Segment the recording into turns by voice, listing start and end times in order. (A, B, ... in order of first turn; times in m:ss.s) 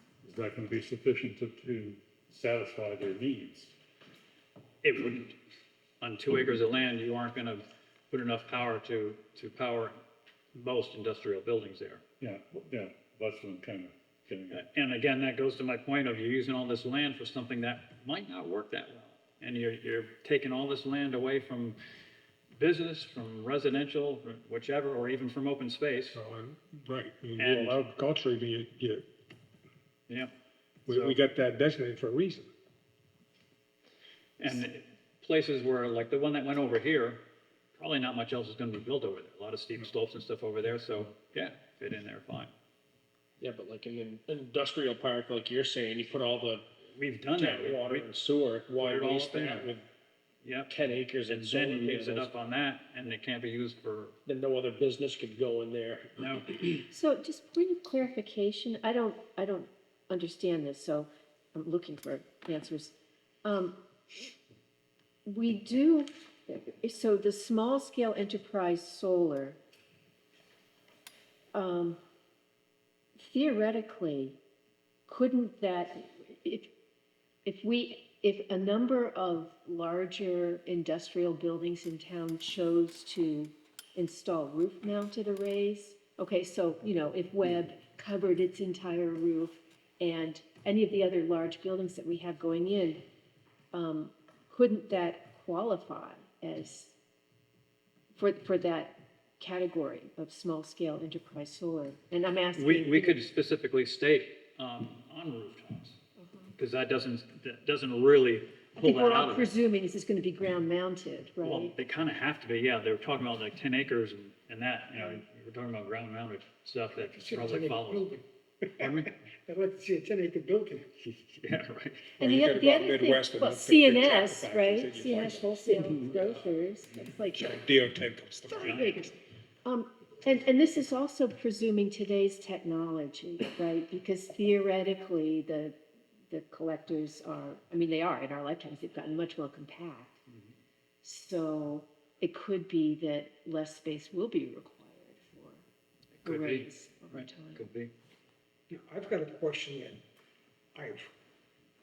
0:00.2-0:03.7 A
0:04.8-0:05.4 B
0:06.0-0:10.0 B
0:10.5-0:12.0 B
0:12.2-0:14.6 A
0:14.5-0:21.8 B
0:22.6-0:26.2 B
0:26.1-0:29.0 C
0:27.4-0:27.9 B
0:30.8-0:32.5 C
0:30.9-0:31.1 B
0:34.4-0:37.2 B
0:37.8-0:42.5 B
0:43.4-0:46.6 D
0:47.0-0:48.1 B
0:47.4-0:49.8 D
0:48.8-0:49.7 B
0:50.4-0:54.1 B
0:50.7-0:52.3 D
0:54.2-0:56.1 D
0:56.2-0:56.8 B
0:56.9-1:03.8 E
1:05.2-1:09.6 E
1:11.5-1:12.0 E
1:13.2-1:14.4 E
1:15.1-1:16.7 E
1:17.4-1:33.0 E
1:33.7-1:37.0 E
1:38.2-1:43.2 E
1:42.6-1:46.0 B
1:46.2-1:46.5 E
1:46.6-1:49.5 B
1:48.8-1:51.7 E
1:51.4-1:58.1 B
1:57.0-2:00.9 F
1:58.8-1:59.1 B
2:01.3-2:02.1 B
2:02.2-2:07.6 E
2:02.2-2:06.2 C
2:07.3-2:09.1 C
2:08.5-2:15.8 E
2:08.5-2:09.1 B
2:16.3-2:20.2 E
2:21.0-2:25.6 E
2:26.2-2:27.9 B
2:26.2-2:27.6 E
2:28.7-2:30.0 F
2:30.7-2:31.0 F